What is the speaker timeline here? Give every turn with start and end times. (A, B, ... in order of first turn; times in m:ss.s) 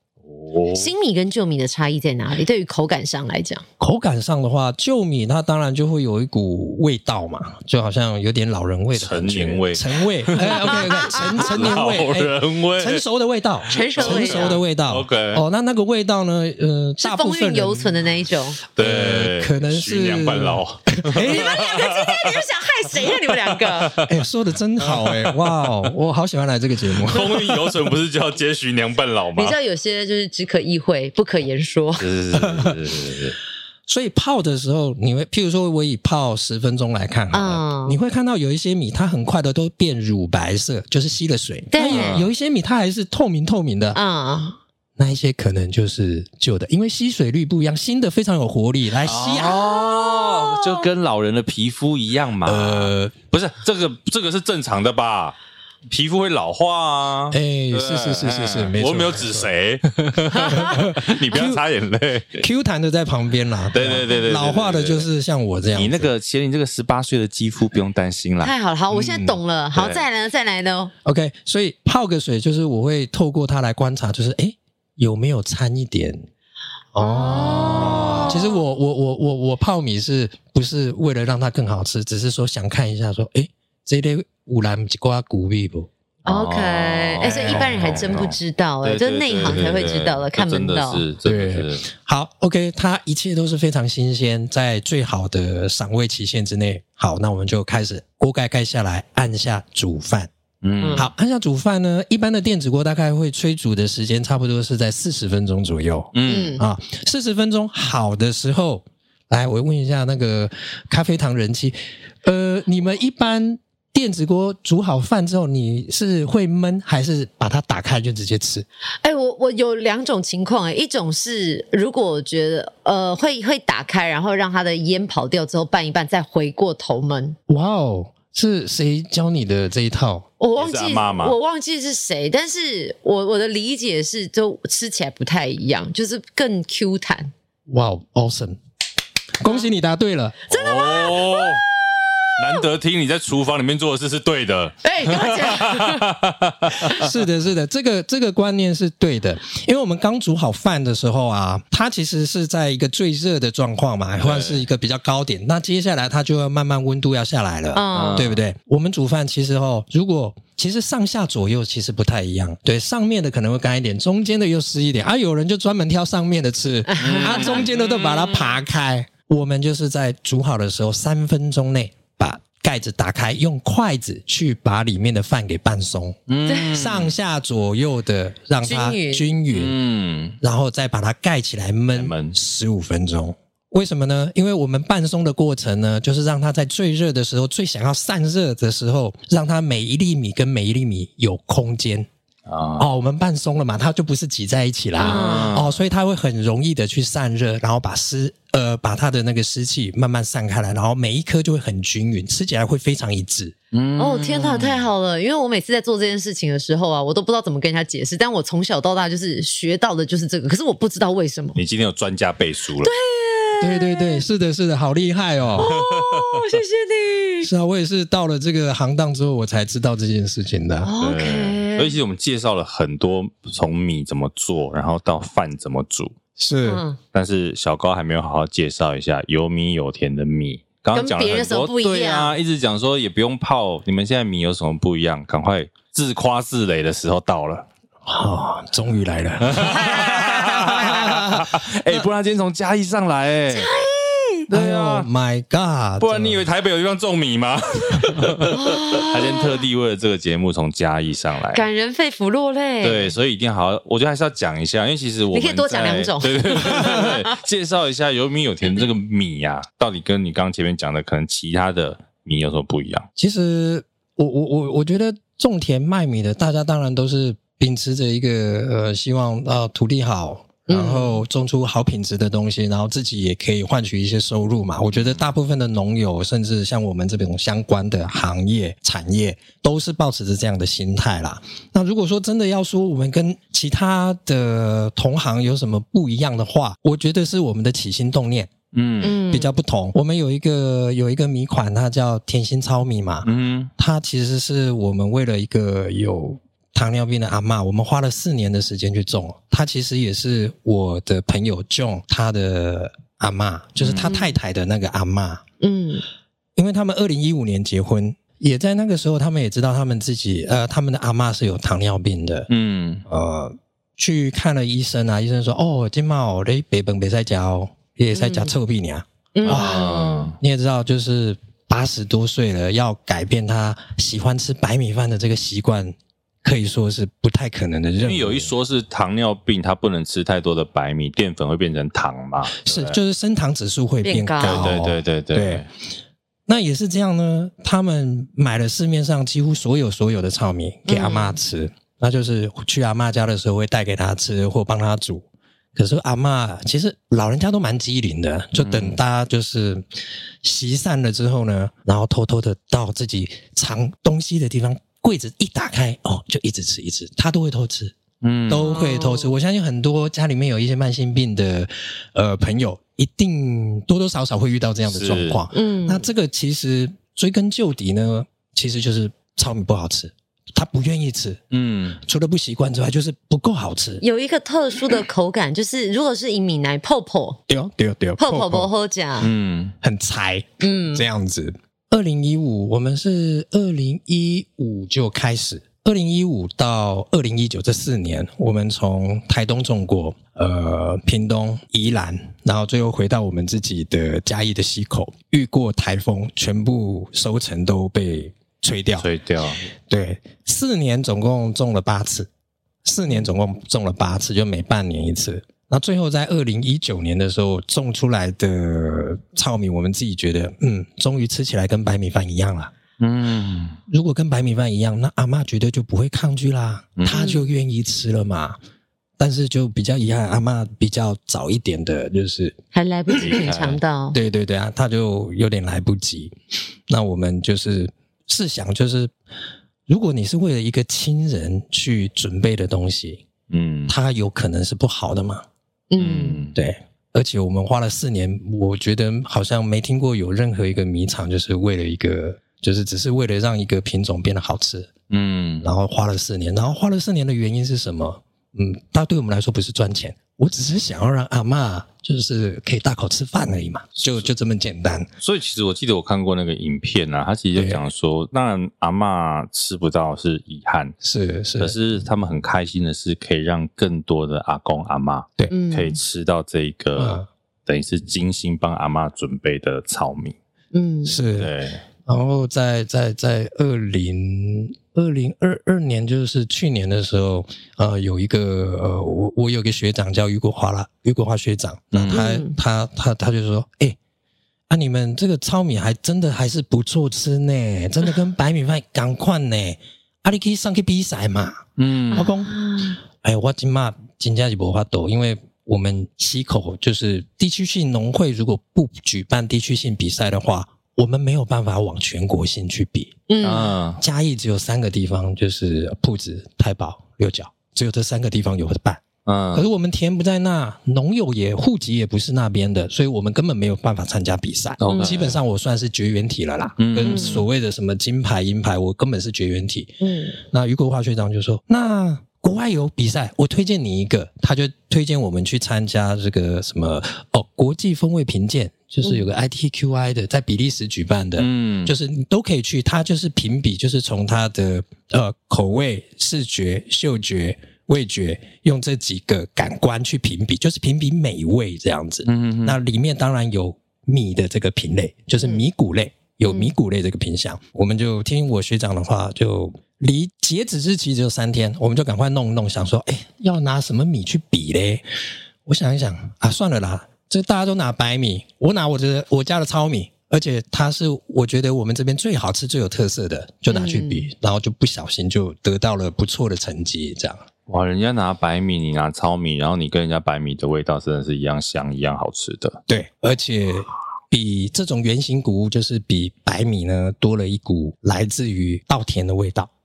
0:00.2-0:00.9 A
0:00.7-0:03.6 B
0:03.8-0:18.0 C
0:08.9-0:13.0 A
0:10.4-0:11.8 B
0:13.7-0:15.4 A
0:13.7-0:14.6 B
0:17.0-0:18.6 B
0:18.7-0:24.2 A
0:18.8-0:21.6 C
0:21.1-0:24.0 B
0:24.0-0:27.8 C
0:24.8-0:25.7 A
0:26.9-0:29.6 A
0:29.3-0:32.0 B
0:32.0-0:33.4 A
0:32.3-0:32.8 C
0:33.9-0:44.0 C
0:37.3-0:38.0 B
0:41.7-0:42.2 B
0:41.8-0:42.3 A
0:43.9-0:44.6 B
0:45.0-0:49.6 C
0:49.0-0:55.4 A
0:49.3-0:50.8 B
0:52.4-0:53.1 C
0:55.9-1:02.4 A
0:57.3-0:59.5 C
1:00.4-1:00.7 B
1:00.5-1:01.6 C
1:02.4-1:06.1 C
1:03.7-1:05.1 A
1:05.7-1:08.5 A
1:08.4-1:10.9 B
1:08.9-1:09.3 C
1:09.7-1:10.0 A
1:11.0-1:16.2 C
1:16.9-1:25.9 C
1:17.0-1:18.6 B
1:17.4-1:18.3 A
1:26.2-1:31.8 A
1:26.2-1:31.0 B
1:27.2-1:28.1 C
1:31.2-1:40.3 C
1:40.6-1:41.1 A
1:40.8-1:41.1 B
1:41.0-1:58.6 C
1:46.1-1:46.6 A
1:46.2-1:46.6 B
1:59.0-2:07.4 B
2:07.5-2:10.3 C
2:10.4-2:17.3 B
2:10.6-2:11.4 A
2:17.7-2:18.6 C
2:19.4-2:20.4 C
2:20.5-2:21.6 B
2:20.5-2:21.6 A
2:22.4-2:22.6 B
2:22.4-2:27.1 A
2:24.8-2:26.1 B
2:26.9-2:56.2 C
2:34.2-2:34.6 A
2:37.7-2:38.3 B
2:37.9-2:38.4 A
2:46.9-2:47.7 B
2:47.0-2:48.6 A
2:56.3-2:57.1 A
2:56.5-2:56.8 B
2:56.7-2:59.7 C
2:58.6-2:59.3 B
2:59.5-3:00.4 A
3:00.4-3:12.1 C
3:01.9-3:02.4 A
3:12.4-3:12.9 A
3:12.8-3:23.5 C
3:15.0-3:15.8 A
3:15.0-3:15.6 B
3:23.7-3:24.9 A
3:24.0-3:31.6 B
3:31.6-3:32.9 A
3:32.8-3:34.2 B
3:33.6-3:35.7 C
3:35.5-3:36.4 A
3:35.6-3:37.5 B
3:37.4-3:40.9 C
3:40.8-3:42.0 B
3:41.0-3:46.1 A
3:46.4-3:46.8 C
3:46.6-3:47.0 B
3:47.1-3:57.7 A
3:50.9-3:52.3 B
3:58.0-4:02.0 C
3:59.4-4:03.7 A
3:59.6-4:01.0 B
4:03.5-4:04.4 B
4:04.5-4:05.1 A
4:04.5-4:06.4 C
4:06.0-4:11.6 A
4:08.5-4:09.6 B
4:11.5-4:13.1 B
4:12.8-4:23.1 A
4:15.3-4:17.4 B
4:23.2-4:48.5 C
4:30.7-4:31.2 B
4:34.9-4:35.2 A
4:48.7-4:49.2 A
4:49.0-4:49.5 B
4:49.2-5:05.4 C
4:53.2-4:53.7 A
5:03.8-5:04.2 A
5:04.0-5:04.4 B
5:05.6-5:06.0 B
5:06.6-5:12.5 C
5:12.5-5:13.0 A
5:13.1-5:28.5 C
5:18.1-5:18.5 B
5:19.3-5:20.3 B
5:19.4-5:20.4 A
5:28.0-5:33.0 A
5:32.5-5:35.6 C
5:34.0-5:34.7 B
5:34.4-5:35.7 A
5:36.5-5:49.8 C
5:40.9-5:41.4 B
5:48.6-5:49.0 A
5:50.4-5:58.0 C
5:58.2-5:58.8 A
5:58.5-6:11.4 C
5:58.6-5:59.3 B
6:04.8-6:05.4 A
6:05.5-6:06.0 B
6:11.5-6:12.0 A
6:12.0-6:14.0 C
6:14.0-6:17.4 B
6:17.5-6:18.7 C
6:18.2-6:19.3 B
6:19.2-6:19.7 A
6:19.8-6:39.1 C
6:20.6-6:21.0 B
6:39.0-6:39.7 A
6:39.9-6:42.3 C
6:42.8-6:52.7 C
6:53.0-6:53.8 A
6:53.9-6:58.6 C
6:57.0-6:57.2 A
6:57.1-6:57.5 B
6:59.2-7:02.6 C
7:02.7-7:04.2 B
7:03.2-7:03.8 A
7:04.1-7:06.3 C
7:06.9-7:09.1 C
7:09.9-7:13.2 C
7:13.5-7:13.9 A
7:13.9-7:15.4 C
7:15.9-7:16.4 B
7:16.0-7:16.6 A
7:16.5-7:24.9 C
7:25.1-7:25.7 A
7:25.6-7:35.1 C
7:35.2-7:40.9 A
7:37.5-7:37.8 C
7:41.0-7:41.7 C
7:41.6-7:50.4 A
7:45.5-7:46.0 B
7:47.0-7:47.3 C
7:50.7-7:51.2 B
7:51.0-7:51.5 C
7:51.3-7:51.8 A
7:52.0-8:04.0 C
8:01.9-8:02.2 A
8:02.1-8:02.5 B
8:04.7-8:12.6 C
8:11.8-8:12.3 A
8:12.1-8:13.0 B
8:13.2-8:23.2 C
8:23.3-8:23.8 B
8:23.4-8:24.0 A
8:24.0-9:15.0 C
8:29.2-8:29.6 A
8:34.8-8:35.4 A
8:34.9-8:35.2 B
8:36.8-8:37.4 A
8:37.0-8:37.4 B
8:40.0-8:40.3 B
8:51.4-8:51.9 A
9:02.2-9:02.8 A
9:06.4-9:06.7 B
9:15.6-9:27.4 C
9:23.7-9:24.3 B
9:27.7-9:32.8 A
9:32.9-9:39.7 C